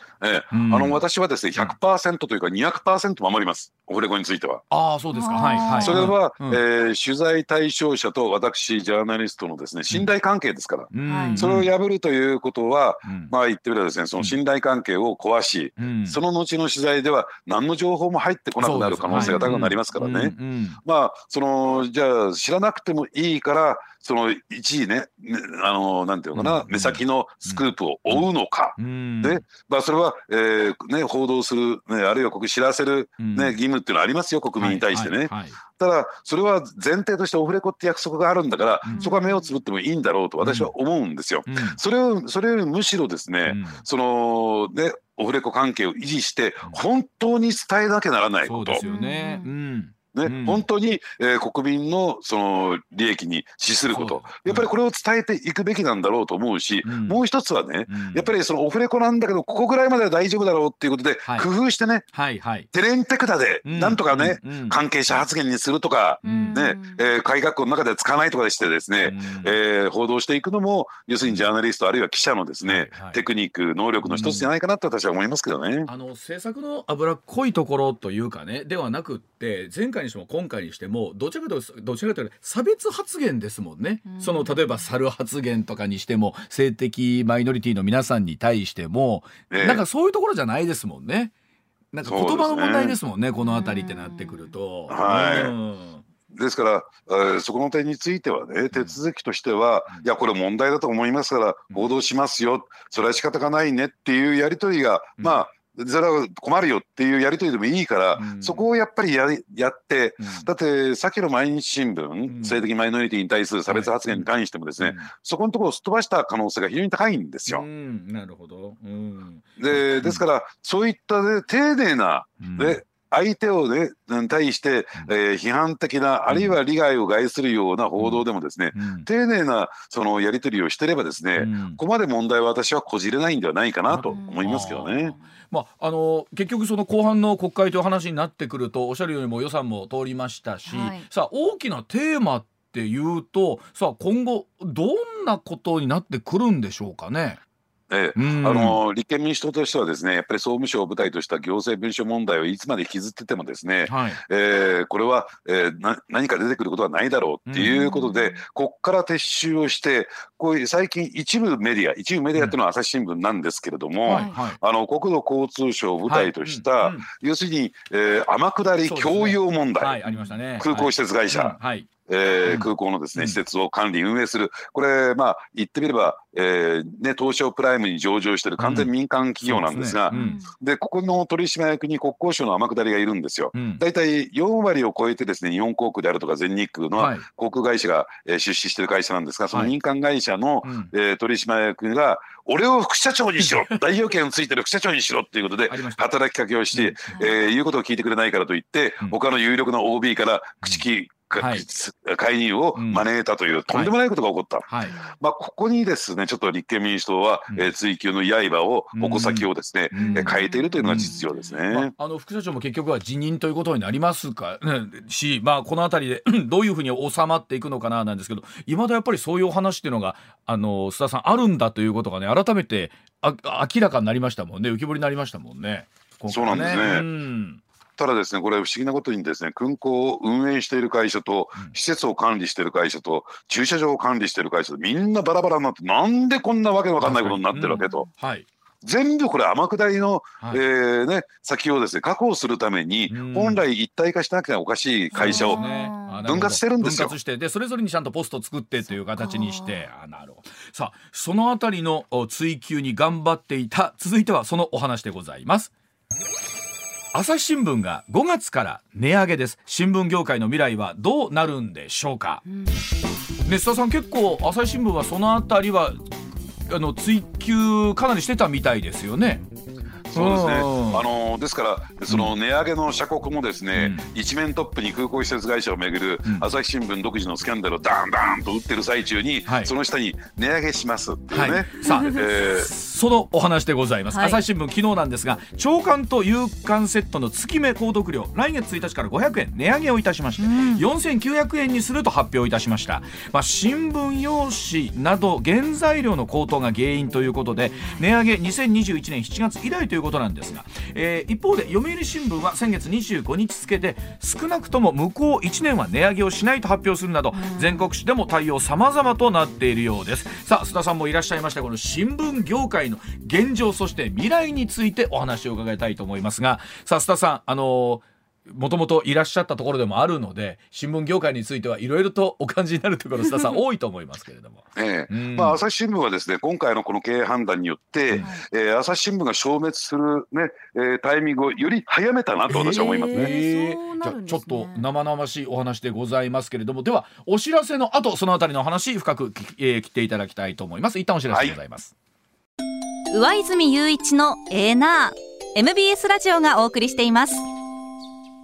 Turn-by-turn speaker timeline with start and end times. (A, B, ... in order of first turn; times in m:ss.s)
0:00.2-0:04.6 A
0:00.5-0:01.0 B
0:04.7-0:06.6 B
0:05.1-0:06.1 C
0:05.8-0:48.8 A
0:10.9-0:11.7 B
0:11.0-0:11.5 C
0:13.0-0:13.3 B
0:15.8-0:16.2 B
0:18.6-0:20.8 B
0:19.1-0:19.7 C
0:26.3-0:29.4 B
0:33.2-0:33.6 B
0:34.6-0:35.6 B
0:38.8-0:39.1 B
0:39.0-0:39.5 C
0:40.4-0:40.7 B
0:41.5-0:41.8 B
0:43.5-0:43.8 B
0:48.4-0:50.7 B
0:48.8-0:49.5 C
0:50.1-1:02.1 A
0:53.9-0:54.7 B
0:56.8-0:57.2 B
0:57.9-0:58.3 B
1:01.2-1:01.5 B
1:02.1-1:02.7 B
1:02.7-1:15.9 A
1:03.6-1:05.3 B
1:06.2-1:06.6 B
1:06.2-1:07.1 C
1:09.0-1:09.6 B
1:11.2-1:11.5 B
1:12.6-1:13.2 B
1:14.0-1:14.5 B
1:15.9-1:31.3 B
1:24.1-1:24.9 C
1:29.5-1:29.8 A
1:31.9-1:36.0 B
1:32.0-1:33.0 A
1:33.4-1:34.5 C
1:34.9-1:35.6 A
1:36.3-1:57.6 A
1:45.2-1:45.4 B
1:48.2-1:48.7 B
1:50.2-1:50.5 B
1:52.3-1:52.6 B
1:53.7-1:55.1 B
1:57.5-2:00.2 B
1:59.6-2:15.2 A
2:02.4-2:02.8 B
2:06.3-2:06.6 B
2:08.0-2:09.1 B
2:11.4-2:11.8 B
2:13.9-2:27.4 B
2:14.1-2:14.5 C
2:20.7-2:21.1 C
2:27.9-2:50.0 A
2:28.2-2:28.8 B
2:33.9-2:34.2 B
2:37.5-2:37.8 B
2:37.6-2:38.4 C
2:44.1-2:44.6 B
2:44.1-2:44.4 C
2:46.1-2:47.1 B
2:48.8-2:51.9 B
2:50.1-2:50.4 C
2:50.6-3:24.7 A
2:52.4-2:53.4 B
2:58.6-3:00.4 B
3:00.1-3:00.5 C
3:03.5-3:03.8 B
3:07.0-3:07.3 B
3:10.6-3:10.9 B
3:13.4-3:13.8 B
3:15.7-3:16.1 B
3:16.7-3:17.0 B
3:21.4-3:21.7 B
3:22.8-3:23.0 B
3:24.7-3:24.9 B
3:24.8-3:25.2 C
3:25.2-3:31.9 A
3:28.9-3:31.2 B
3:30.0-3:31.5 C
3:31.7-3:47.6 B
3:46.3-3:47.1 A
3:48.0-3:58.1 A
3:57.0-3:58.5 B
3:57.7-3:58.1 C
3:58.8-4:05.7 A
4:03.1-4:03.6 B
4:05.1-4:06.2 C
4:05.1-4:15.7 B
4:06.2-4:07.2 A
4:08.9-4:09.8 C
4:17.1-4:22.4 B
4:22.5-4:22.8 C
4:23.4-4:26.0 B
4:26.7-4:29.5 B
4:30.1-4:42.7 A
4:30.1-4:31.0 B
4:32.1-4:32.3 B
4:33.7-4:34.0 B
4:36.2-4:36.5 B
4:39.5-4:39.7 B
4:41.3-5:25.6 B
4:41.8-4:42.3 C
4:44.1-4:44.4 C
4:50.4-4:50.8 C
5:07.3-5:07.9 C
5:24.8-5:33.3 A
5:32.5-5:41.9 B
5:32.7-5:34.9 C
5:41.3-5:41.6 A
5:43.1-5:47.4 C